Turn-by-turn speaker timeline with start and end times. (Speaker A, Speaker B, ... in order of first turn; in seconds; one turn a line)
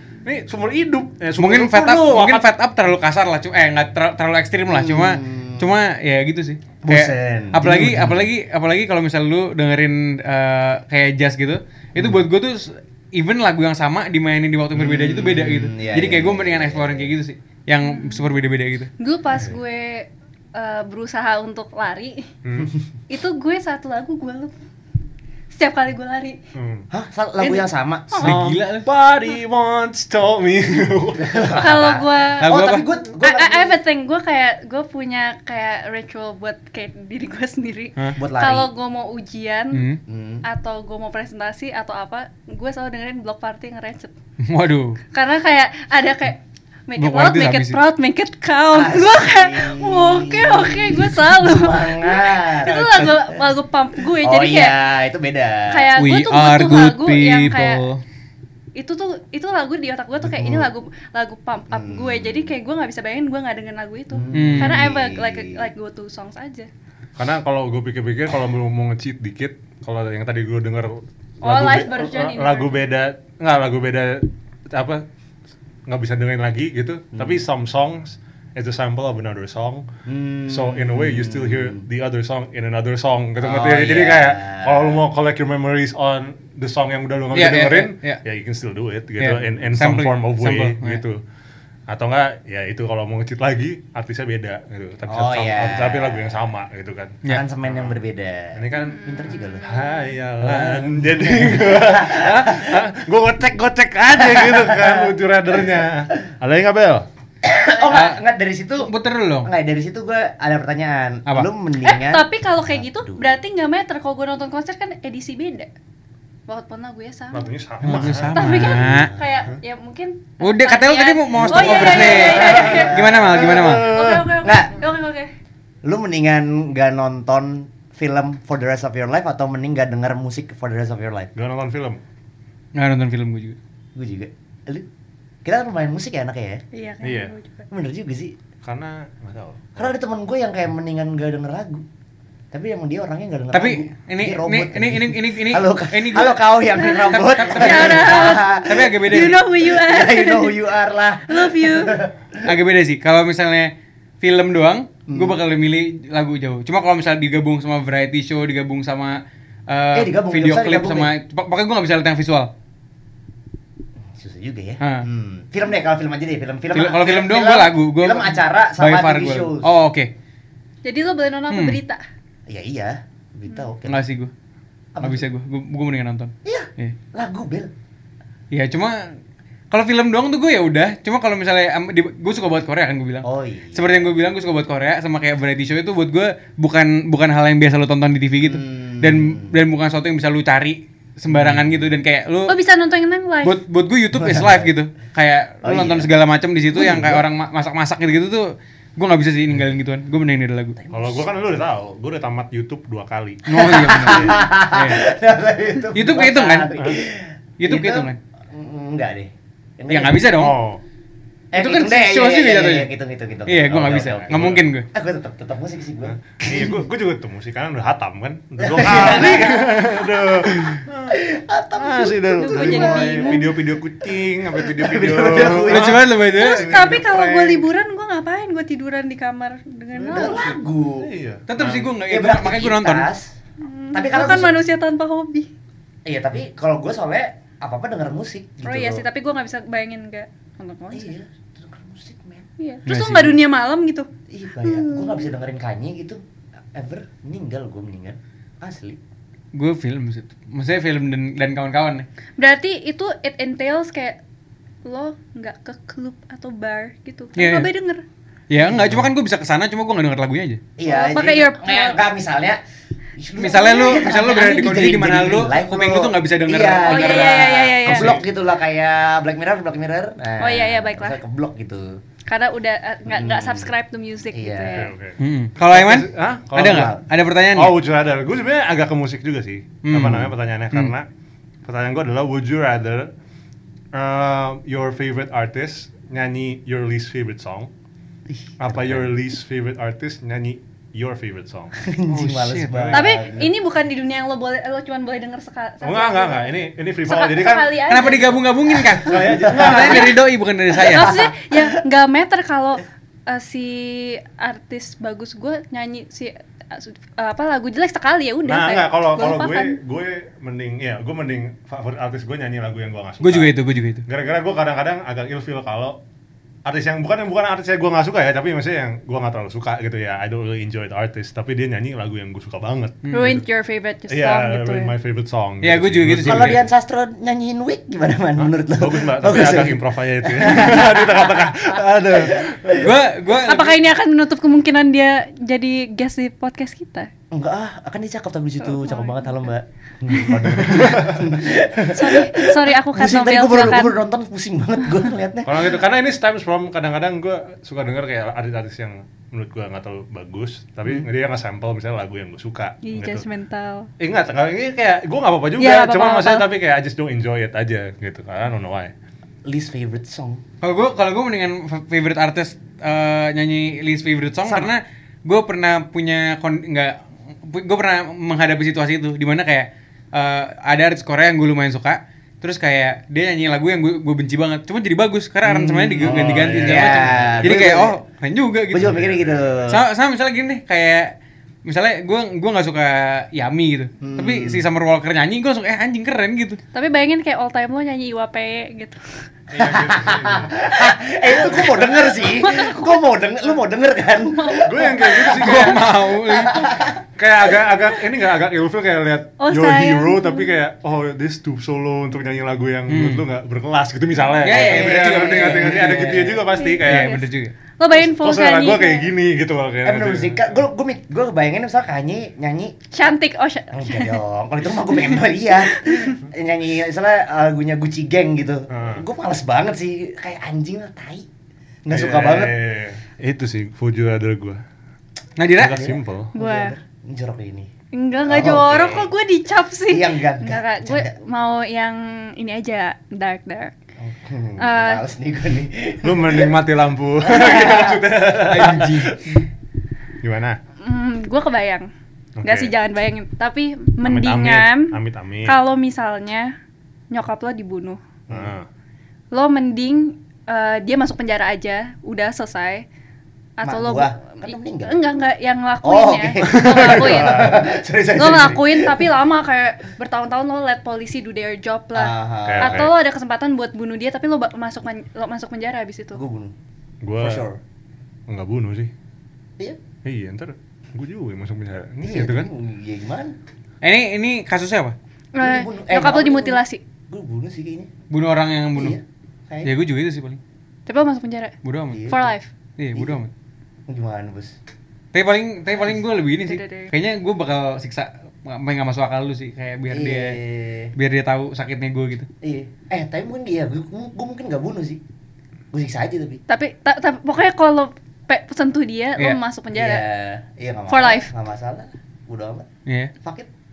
Speaker A: 0.2-2.5
Speaker B: 1.4-18.9
Speaker C: 4.7-5.7
Speaker C: 6.8-8.3
Speaker C: 14.7-17.1
Speaker D: 17.8-18.3
Speaker D: 19.0-22.3
Speaker A: 22.4-22.7
Speaker D: 23.1-24.5
Speaker D: 25.5-26.4
Speaker A: 26.5-26.9
Speaker C: 26.9-28.3
Speaker D: 27.4-28.3
Speaker B: 28.2-28.9
Speaker A: 28.2-31.8
Speaker C: 31.2-33.8
Speaker D: 31.6-32.5
Speaker B: 32.4-32.9
Speaker D: 33.2-39.8
Speaker C: 38.1-38.7
Speaker B: 39.7-40.0
Speaker C: 40.1-40.4
Speaker D: 40.4-44.1
Speaker B: 44.4-45.0
Speaker D: 45.1-54.7
Speaker B: 47.0-47.8
Speaker C: 48.7-53.5
Speaker C: 54.2-55.9
Speaker D: 55.7-57.8
Speaker B: 56.0-58.0
Speaker D: 58.8-66.7
Speaker C: 60.2-60.7
Speaker C: 61.7-62.5
Speaker C: 64.1-65.6
Speaker B: 64.3-64.9
Speaker A: 67.2-75.0
Speaker D: 71.4-72.7
Speaker A: 75.9-79.9
Speaker C: 77.1-77.4
Speaker C: 80.0-81.8
Speaker A: 80.5-91.2
Speaker C: 83.4-85.0
Speaker B: 87.3-88.2
Speaker B: 89.2-91.0
Speaker A: 91.9-98.0
Speaker C: 95.1-96.3
Speaker C: 97.2-99.8
Speaker A: 98.5-99.0
Speaker D: 98.7-100.1
Speaker A: 99.5-107.0
Speaker C: 100.4-102.8
Speaker C: 104.1-105.1
Speaker C: 107.4-108.9
Speaker B: 107.9-108.2
Speaker B: 108.8-109.5
Speaker C: 109.4-113.3
Speaker D: 111.8-115.7
Speaker D: 116.5-117.5
Speaker A: 117.3-118.8
Speaker B: 117.8-119.1
Speaker D: 118.3-125.3
Speaker C: 118.6-119.5
Speaker B: 120.4-124.0
Speaker C: 121.3-123.8
Speaker A: 122.4-124.3
Speaker C: 124.4-124.8
Speaker C: 125.8-131.3
Speaker A: 131.3-132.0
Speaker B: 132.7-133.6
Speaker C: 133.9-134.9
Speaker C: 135.4-136.6
Speaker D: 136.7-137.7
Speaker A: 137.0-137.3
Speaker C: 137.7-138.3
Speaker A: 138.6-139.9
Speaker C: 139.8-141.8
Speaker C: 142.5-152.5
Speaker B: 143.5-149.4
Speaker D: 147.5-150.6
Speaker D: 151.3-152.0
Speaker B: 152.4-162.5
Speaker C: 155.1-155.4
Speaker C: 159.9-161.1
Speaker C: 164.1-169.7
Speaker B: 164.8-165.1
Speaker B: 166.7-170.1
Speaker D: 170.8-172.0
Speaker B: 171.5-171.8
Speaker C: 172.5-174.0
Speaker B: 173.8-174.3
Speaker C: 174.9-175.2
Speaker B: 175.0-176.9
Speaker C: 176.4-177.7
Speaker B: 178.5-179.1
Speaker B: 179.7-192.6
Speaker C: 183.2-184.1
Speaker C: 188.4-189.5
Speaker C: 191.3-191.6
Speaker D: 192.5-193.6
Speaker B: 193.4-200.8
Speaker C: 194.1-194.7
Speaker C: 195.6-196.1
Speaker C: 196.7-197.2
Speaker C: 200.8-201.2
Speaker A: 200.9-204.3
Speaker B: 203.5-205.1
Speaker C: 203.5-210.3
Speaker B: 205.9-206.8
Speaker B: 207.6-208.2
Speaker B: 209.9-210.6
Speaker A: 210.3-210.8
Speaker C: 211.5-216.8
Speaker B: 211.5-212.9
Speaker B: 213.5-214.8
Speaker A: 213.9-214.7
Speaker A: 216.1-221.2
Speaker C: 218.6-223.5
Speaker A: 221.7-227.6
Speaker D: 222.4-223.4
Speaker C: 224.6-226.1
Speaker B: 225.5-226.8
Speaker D: 226.3-230.6
Speaker C: 229.9-231.1
Speaker A: 230.1-231.9
Speaker B: 231.5-233.1
Speaker C: 232.0-233.3
Speaker D: 233.6-235.5
Speaker C: 233.9-234.6
Speaker C: 236.1-239.0
Speaker D: 238.6-241.1
Speaker C: 240.9-242.5
Speaker D: 242.6-244.1
Speaker B: 242.8-243.4
Speaker C: 244.3-246.2
Speaker D: 244.6-245.3
Speaker C: 246.7-249.0
Speaker B: 249.5-252.1
Speaker D: 252.4-254.2
Speaker D: 254.8-258.0
Speaker B: 257.4-257.7
Speaker B: 258.5-260.6
Speaker C: 258.6-259.1
Speaker C: 260.8-262.6
Speaker D: 260.8-262.0
Speaker C: 263.2-272.0
Speaker B: 263.4-268.2
Speaker D: 266.8-268.1
Speaker D: 270.4-271.2
Speaker D: 272.3-274.9
Speaker C: 273.1-273.7
Speaker C: 274.3-274.9
Speaker A: 274.7-276.9
Speaker B: 275.2-277.8
Speaker C: 276.6-277.0
Speaker A: 277.5-281.1
Speaker B: 279.8-280.9
Speaker A: 281.6-283.1
Speaker A: 283.9-287.7
Speaker C: 288.3-289.1
Speaker A: 288.6-291.7
Speaker C: 291.8-293.5
Speaker B: 292.1-292.9
Speaker A: 292.7-293.0
Speaker D: 292.9-298.8
Speaker A: 295.8-297.8
Speaker B: 297.8-301.2
Speaker C: 298.9-300.1
Speaker A: 299.0-300.1
Speaker D: 299.7-300.0
Speaker D: 300.8-309.8
Speaker C: 300.8-301.7
Speaker A: 308.4-313.5
Speaker B: 313.2-314.0
Speaker A: 314.1-316.0
Speaker A: 316.6-323.4
Speaker B: 323.0-323.4
Speaker D: 323.1-324.9
Speaker A: 324.1-326.6
Speaker B: 325.6-326.6
Speaker C: 326.2-332.9
Speaker A: 328.4-332.9
Speaker B: 332.7-333.8
Speaker D: 333.4-337.1
Speaker C: 337.3-345.8
Speaker D: 338.6-339.4
Speaker A: 340.2-341.3
Speaker D: 341.9-344.0
Speaker A: 345.4-353.2
Speaker D: 352.8-353.9
Speaker A: 354.0-358.9
Speaker D: 355.6-356.5
Speaker C: 359.4-360.4
Speaker B: 360.6-379.0
Speaker C: 364.4-364.7
Speaker C: 375.4-377.9
Speaker A: 376.0-377.7
Speaker C: 378.7-379.8
Speaker A: 378.8-379.6
Speaker B: 379.7-386.6
Speaker C: 384.0-384.6
Speaker D: 386.7-389.0
Speaker A: 389.5-390.7
Speaker C: 389.6-397.0
Speaker A: 391.4-391.8
Speaker D: 392.2-393.0
Speaker D: 394.3-394.9
Speaker A: 394.6-395.8
Speaker B: 395.2-396.7
Speaker A: 397.2-407.2
Speaker D: 399.4-400.5
Speaker B: 402.9-403.2
Speaker B: 404.4-407.5
Speaker C: 404.5-406.5
Speaker D: 406.5-407.3
Speaker D: 407.8-409.1
Speaker A: 407.9-410.6
Speaker C: 409.8-412.9
Speaker D: 412.9-414.2
Speaker C: 413.7-421.3
Speaker D: 414.8-416.2
Speaker A: 418.7-419.0
Speaker C: 421.8-422.6
Speaker A: 421.9-424.6
Speaker B: 425.4-425.9
Speaker A: 425.5-426.3
Speaker C: 425.6-427.7
Speaker D: 426.3-426.7
Speaker D: 427.9-433.7
Speaker C: 428.2-428.9
Speaker A: 428.4-429.1
Speaker C: 429.9-431.1
Speaker C: 434.0-436.6
Speaker D: 434.6-435.0
Speaker A: 436.0-439.1
Speaker C: 437.2-439.0
Speaker B: 438.4-439.2
Speaker A: 440.2-440.6
Speaker D: 440.8-441.9
Speaker A: 442.4-442.7
Speaker D: 442.4-444.9
Speaker A: 444.0-445.6
Speaker D: 445.4-446.5
Speaker D: 447.1-448.0
Speaker A: 448.3-448.7
Speaker D: 449.3-452.8
Speaker D: 453.6-466.2
Speaker C: 453.6-455.0
Speaker C: 455.8-459.1
Speaker A: 456.5-457.6
Speaker C: 461.9-462.9
Speaker A: 462.5-462.9
Speaker C: 466.1-466.5
Speaker A: 467.0-467.4
Speaker C: 467.1-467.6
Speaker A: 468.3-468.9
Speaker A: 470.0-472.5
Speaker C: 472.0-473.4
Speaker B: 473.8-474.9
Speaker D: 475.3-476.8
Speaker C: 475.4-477.9
Speaker B: 478.1-479.0
Speaker C: 478.8-479.7
Speaker B: 479.6-480.4
Speaker D: 480.9-481.5
Speaker B: 481.6-482.1
Speaker C: 481.9-482.3
Speaker D: 482.1-482.5
Speaker B: 482.8-483.3
Speaker C: 483.9-484.6
Speaker B: 485.1-490.4
Speaker D: 486.4-486.9
Speaker C: 489.9-490.9
Speaker B: 490.9-492.3
Speaker C: 492.4-495.0
Speaker C: 495.7-496.4
Speaker D: 496.5-500.0
Speaker C: 499.7-502.7
Speaker D: 500.9-501.3
Speaker B: 502.9-503.1
Speaker C: 503.2-503.5